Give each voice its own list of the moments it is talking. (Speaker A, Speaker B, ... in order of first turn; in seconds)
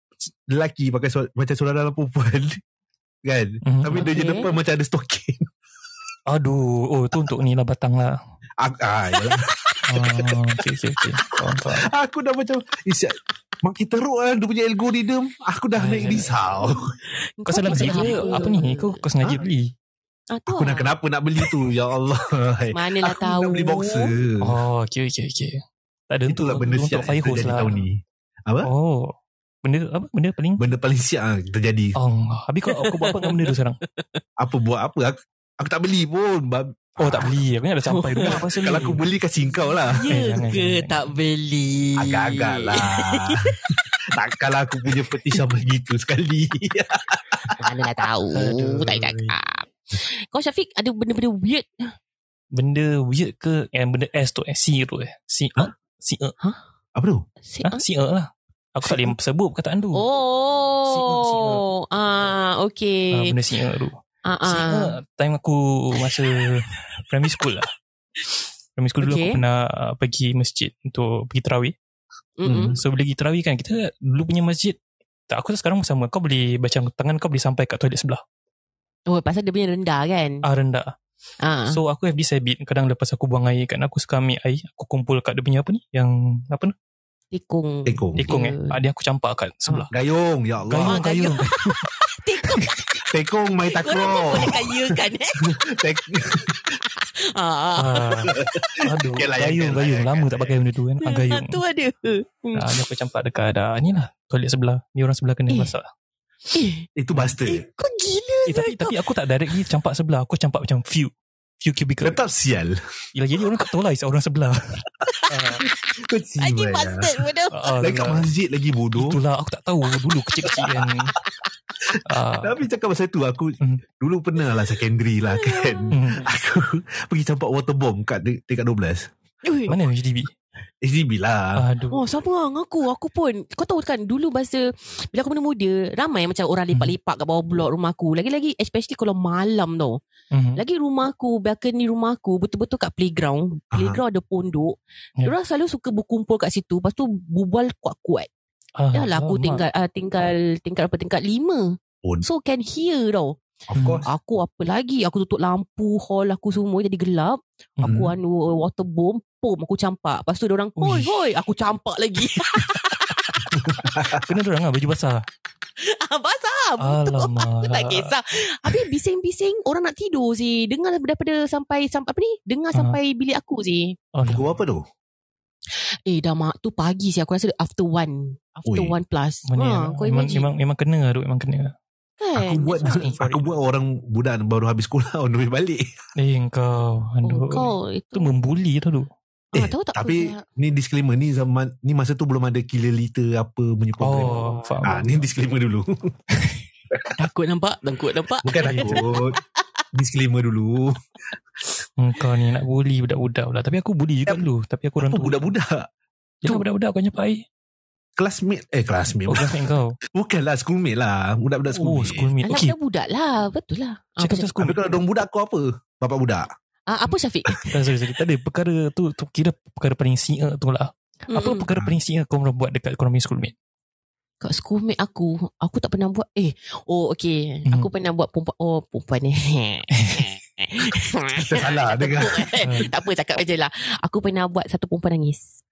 Speaker A: 0.5-2.6, 3.2-5.5, 8.6-10.3, 11.8-16.9, 17.7-18.4, 20.5-24.6, 26.3-28.7, 30.6-31.9, 34.4-37.3, 38.2-40.1, 42.0-43.5, 44.1-47.7, 56.9-57.2, 72.4-72.8, 87.8-88.3, 89.7-91.0, 93.1-94.8, 95.4-96.6, 98.2-100.5, 107.0-107.6, 112.0-112.8, 115.6-117.1, 117.8-119.2, 121.9-129.1, 130.8-131.6, 143.7-144.0, 153.7-154.1, 157.8-158.1, 163.5-164.3, 174.2-174.8, 178.7-178.9, 182.3-185.9, 189.5-196.1, 198.4-199.4, 199.9-201.0, 205.0-205.8, 208.2-209.5, 210.1-212.3, 214.6-216.5, 231.4-232.5
Speaker B: 3.6-4.2, 6.3-8.2, 9.9-11.9, 15.8-16.3, 17.5-19.7, 24.4-27.8, 28.6-30.6, 31.9-33.8, 37.0-39.0, 40.1-41.0, 48.3-49.3, 52.5-56.3, 57.6-60.0, 60.9-61.6, 63.1-67.7, 68.8-71.7, 72.7-78.2, 80.4-80.9, 81.7-86.7, 88.2-89.9, 90.7-91.5, 97.8-101.6, 102.5-105.9, 108.5-112.2, 113.1-115.6, 117.5-118.2, 118.9-121.1, 122.0-122.7, 125.9-126.3, 129.7-130.3, 131.6-132.0, 140.3-140.6, 148.8-149.6, 153.7-154.0, 157.8-158.1, 160.8-161.1, 163.8-165.2, 166.8-168.1, 174.1-174.5, 179.5-181.7, 182.8-183.5, 186.2-189.1, 194.0-195.2, 198.6-199.0, 202.0-205.4, 206.4-207.4, 209.3-210.0, 211.7-212.8, 214.2-214.8, 217.7-223.5, 229.9-230.3, 232.6-232.9
Speaker C: 4.0-4.5, 17.4-19.0, 20.3-20.9, 22.7-24.1, 32.7-33.5, 37.9-38.5, 39.9-43.5, 47.5-51.9, 57.5-57.8, 59.9-63.3, 64.2-64.9, 69.0-69.4, 72.4-72.8, 79.1-80.4, 81.4-81.8, 87.3-88.8, 90.8-92.8, 93.7-95.4, 97.0-98.3, 101.0-102.7, 106.5-106.9, 107.4-109.6, 116.4-117.8, 125.3-126.0, 129.4-129.8, 131.9-140.0, 140.6-148.3, 148.9-153.4, 154.0-163.5, 165.8-174.0, 176.1-180.5, 182.2-183.2, 187.2-188.3, 189.5-190.4, 197.2-199.4, 212.4-214.5, 216.9-217.8, 221.3-221.7, 224.4-235.6